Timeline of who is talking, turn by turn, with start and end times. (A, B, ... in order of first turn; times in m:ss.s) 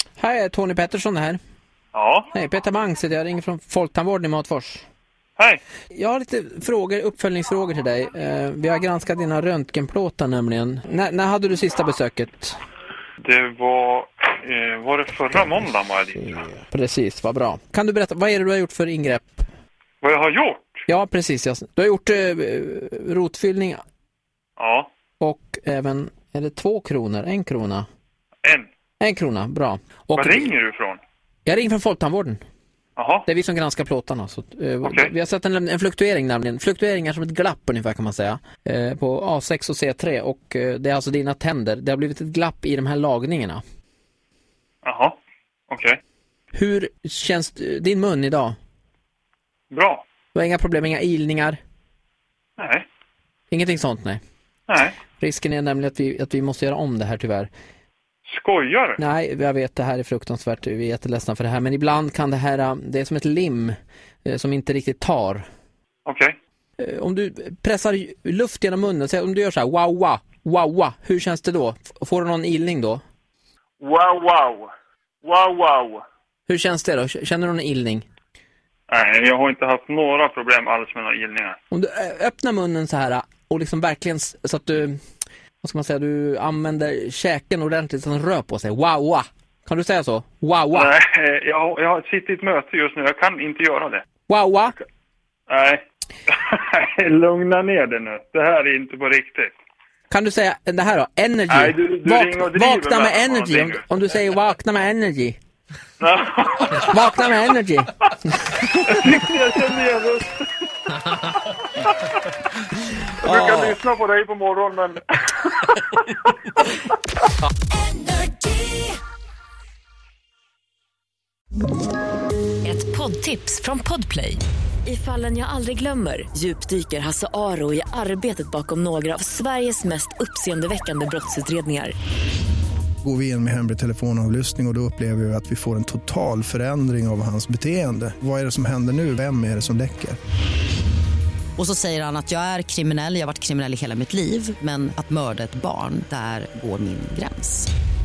0:00.2-0:01.4 A
0:01.9-0:02.3 B
0:02.3-0:04.8 A
0:05.9-0:12.6 A
0:13.2-0:16.4 B
0:16.2-0:19.4 A
0:20.0-0:20.8 B
0:20.9-0:23.8 A
0:24.6-0:24.9 B
0:25.2-0:27.8 A
0:29.0-0:30.5 A
0:30.2-0:31.0 B
0:31.4-0:32.4 A
0:33.0-0:33.3 B
0:33.2-0:43.6 A
0:34.8-0:35.1 B
0:44.8-0:45.2 B
0:45.7-0:46.0 B
0:46.5-0:48.6 A
0:49.7-0:50.0 B
0:50.3-0:51.6 A
0:52.6-0:52.8 B
0:53.5-0:54.2 A
0:54.7-0:55.0 B
0:55.2-0:57.5 A
0:58.3-0:59.0 B
0:59.0-1:05.4 A
1:06.0-1:06.3 B
1:06.8-1:13.0 A
1:13.8-1:14.7 B
1:15.2-1:16.0 B
1:16.5-1:18.0 A
1:18.9-1:21.6 B
1:21.7-1:25.0 A
1:25.6-1:30.9 A
1:30.7-1:34.0 B
1:34.3-1:34.7 A
1:35.5-1:39.5 B
1:40.1-1:45.4 A
1:41.5-1:43.8 B
1:46.0-1:46.9 B
1:46.8-1:48.7 A
1:48.7-1:50.5 B
1:53.2-1:56.0 B
1:53.3-1:53.7 A
1:57.8-1:58.9 C
2:02.6-2:11.9 C
2:13.0-2:20.2 D
2:21.6-2:27.7 E